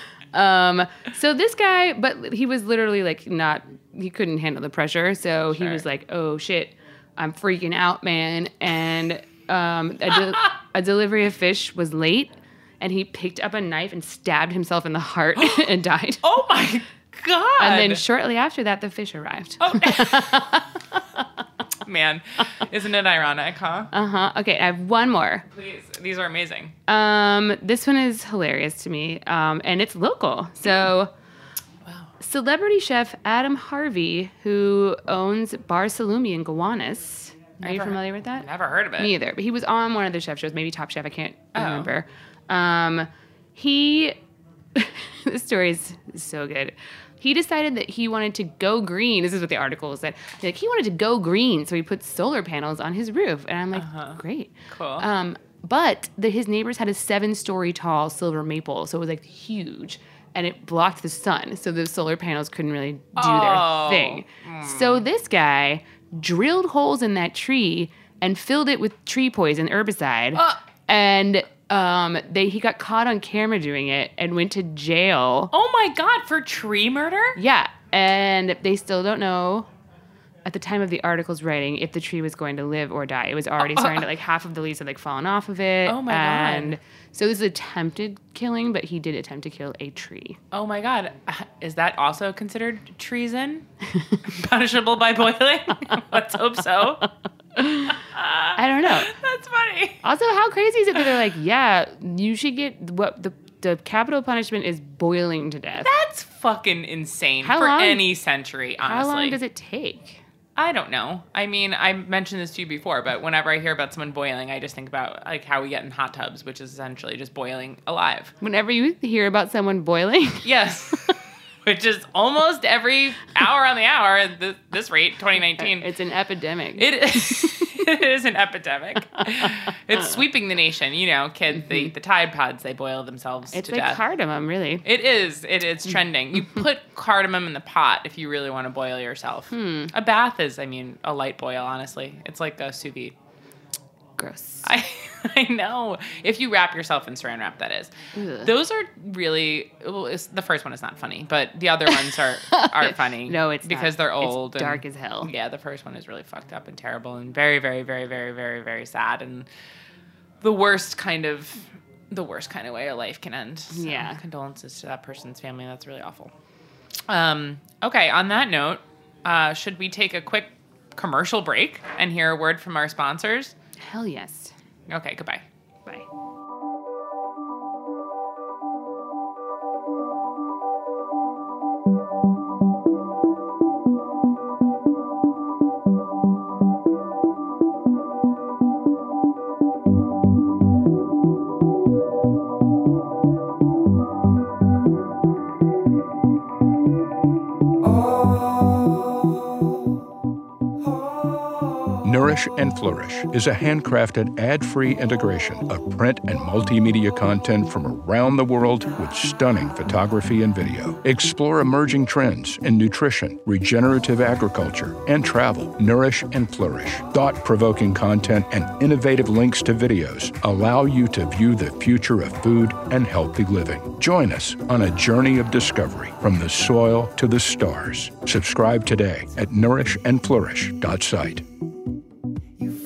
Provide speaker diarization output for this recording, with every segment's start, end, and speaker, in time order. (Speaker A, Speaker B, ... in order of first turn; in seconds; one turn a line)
Speaker A: 0.3-16.2
Speaker B: 5.5-5.8
Speaker B: 15.4-15.7
Speaker B: 16.2-18.0
Speaker A: 17.6-20.7
Speaker B: 19.6-20.6
Speaker B: 21.8-23.9
Speaker A: 23.9-25.4
Speaker B: 25.5-26.7
Speaker A: 26.9-31.1
Speaker B: 31.8-32.1
Speaker A: 32.2-38.5
Speaker B: 37.6-39.1
Speaker A: 39.0-44.2
Speaker B: 41.5-41.9
Speaker A: 44.7-75.5
Speaker B: 53.7-54.2
Speaker B: 54.7-55.0
Speaker B: 63.2-65.0
Speaker B: 75.5-77.4
Speaker A: 77.3-79.7
Speaker A: 80.4-90.4
Speaker B: 83.6-84.0
Speaker B: 85.8-86.8
Speaker B: 90.5-93.7
Speaker B: 94.2-97.1
Speaker A: 97.6-97.8
Speaker B: 97.8-100.0
Speaker A: 98.5-99.1
Speaker A: 100.0-105.9
Speaker B: 105.8-109.4
Speaker A: 107.4-108.0
Speaker A: 108.8-110.2
Speaker B: 110.5-118.3
Speaker A: 118.4-120.5
Speaker B: 120.4-125.9
Speaker A: 125.6-126.8
Speaker B: 126.8-134.0
Speaker A: 133.5-134.8
Speaker B: 134.8-143.1
Speaker A: 139.5-139.9
Speaker A: 144.2-144.7
Speaker B: 144.6-159.5
Speaker A: 148.1-148.5
Speaker A: 152.5-155.3
Speaker B: 160.4-166.3
Speaker A: 163.7-164.2
Speaker B: 167.1-173.5
Speaker A: 173.8-174.5
Speaker B: 174.9-175.4
Speaker C: 202.0-231.4